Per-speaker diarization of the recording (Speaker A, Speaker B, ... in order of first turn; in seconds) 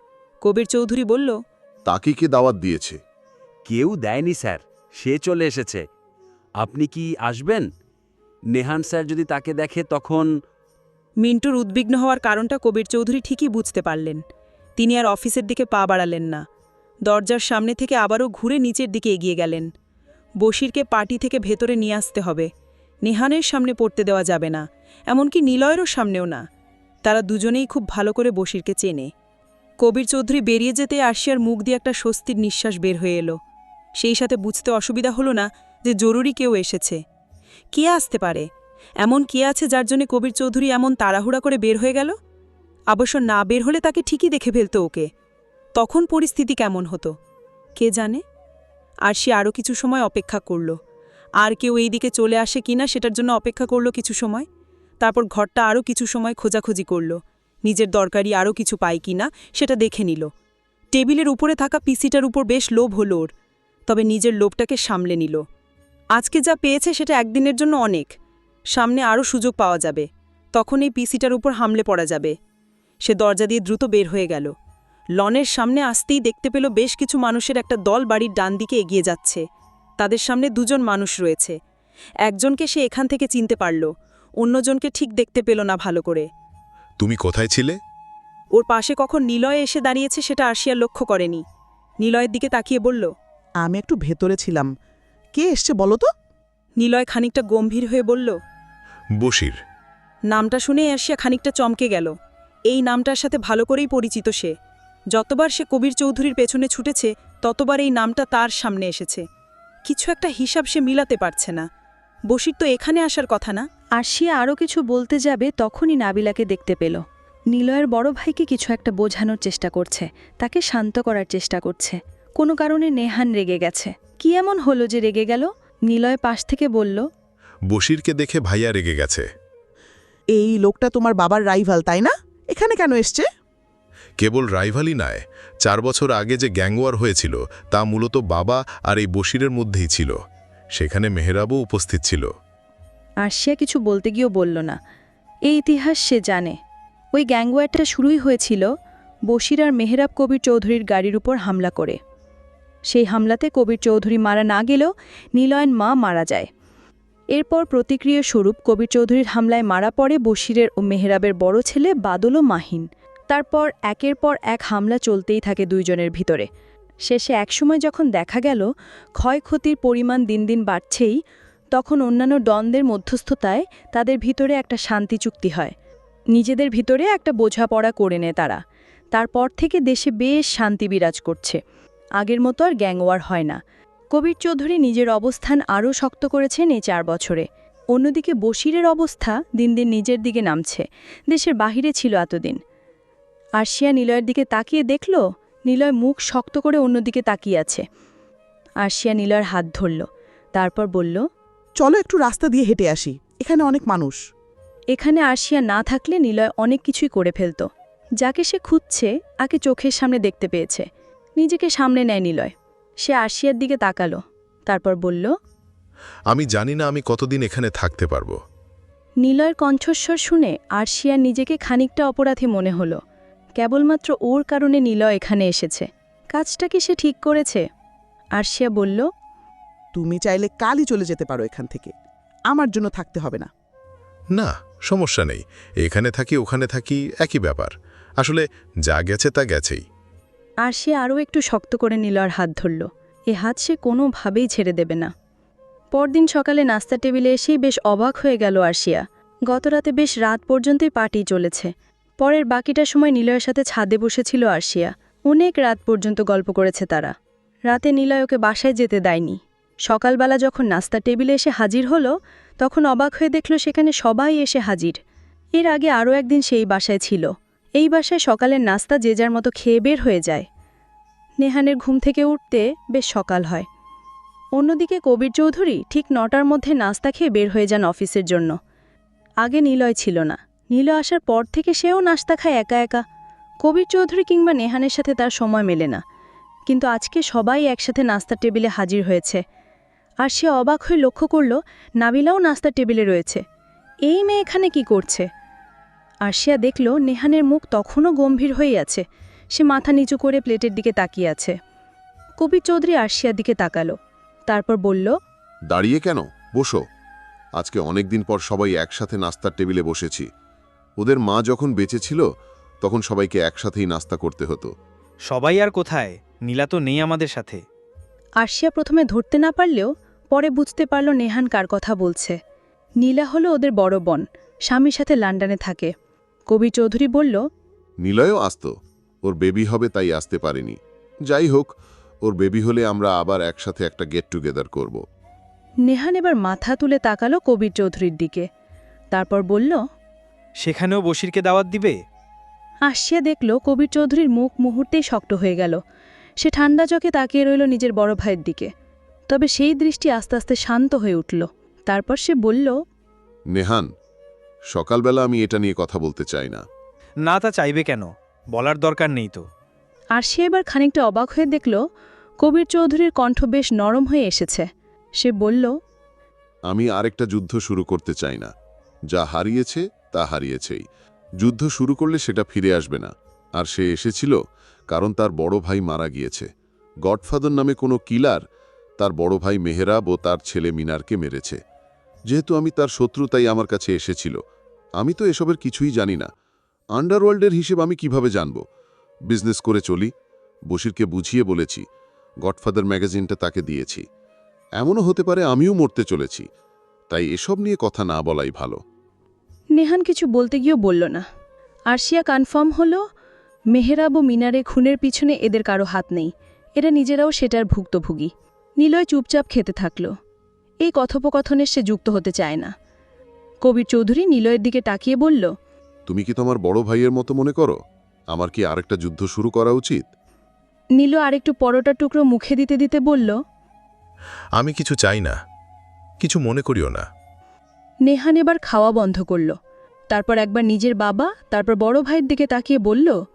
Speaker A: 0.4-1.3, 11.2-14.2, 14.8-16.4, 17.1-19.7, 20.4-22.5, 23.0-26.4, 27.1-29.1, 29.8-33.3, 34.0-37.0, 37.7-38.4, 39.0-42.1, 42.9-45.0, 45.8-47.1, 47.8-48.2, 49.0-50.7, 51.4-54.5, 55.0-57.1, 57.7-60.3, 60.9-63.3, 63.9-65.4, 66.2-68.1, 68.7-70.0, 70.5-72.3, 73.0-74.5, 75.2-79.4, 80.0-81.5, 82.2-83.9, 84.4-86.3, 88.5-91.4, 92.0-93.1, 96.8-98.3, 100.3-102.1, 102.7-104.5, 105.1-109.2, 109.9-111.6, 112.3-113.6
Speaker B: 1.9-3.0, 305.7-306.8, 307.6-310.3, 311.0-312.2, 312.8-314.7, 328.0-328.7, 329.2-330.8, 331.3-331.7, 332.2-335.0, 353.5-353.9, 354.7-356.6, 366.7-368.5, 369.1-370.8, 371.4-374.4, 374.9-376.5, 377.1-378.4, 379.0-381.6, 382.3-384.4, 385.0-386.3, 387.0-388.6, 389.3-390.1, 390.7-391.8, 392.4-394.0, 394.8-396.5, 397.1-398.8, 416.1-417.8, 418.3-420.1
Speaker C: 3.7-5.8, 6.6-7.7, 8.5-10.3
Speaker D: 87.0-87.8, 99.2-99.6, 127.7-129.3, 134.2-140.2, 140.8-142.3, 216.3-218.4, 234.3-239.8, 424.6-425.4, 426.2-427.1
Speaker E: 93.6-94.7, 95.3-96.1, 130.4-133.2, 201.8-204.2, 229.9-231.9, 232.5-233.5
Speaker F: 114.0-127.0, 143.2-144.8, 145.5-146.6, 147.1-148.7, 149.3-152.0, 152.9-156.5, 157.3-166.5, 167.1-168.7, 169.2-171.2, 171.8-175.7, 176.3-178.6, 179.1-181.6, 182.2-183.6, 184.1-192.6, 193.6-197.8, 198.8-201.2, 204.9-207.7, 208.2-210.8, 211.4-215.3, 219.2-223.0, 223.6-227.6, 228.4-229.1, 240.6-245.1, 245.9-257.1, 257.7-265.0, 265.6-267.3, 267.8-270.5, 271.4-273.7, 274.6-278.5, 279.4-283.0, 283.6-286.0, 286.7-289.4, 290.2-293.4, 294.1-295.3, 296.3-299.0, 299.6-301.6, 302.4-303.9, 304.5-305.1, 318.4-322.4, 323.0-325.9, 326.5-327.4, 335.9-338.5, 339.1-339.8, 342.9-345.8, 346.4-348.7, 349.3-352.7, 360.1-361.8, 362.4-364.7, 365.2-365.7, 399.8-401.2, 401.9-403.0, 403.7-410.1, 410.8-412.7, 413.6-415.5, 421.0-423.4, 428.1-429.6, 430.1-433.2
Speaker G: 315.3-317.6, 340.6-342.0, 357.3-359.4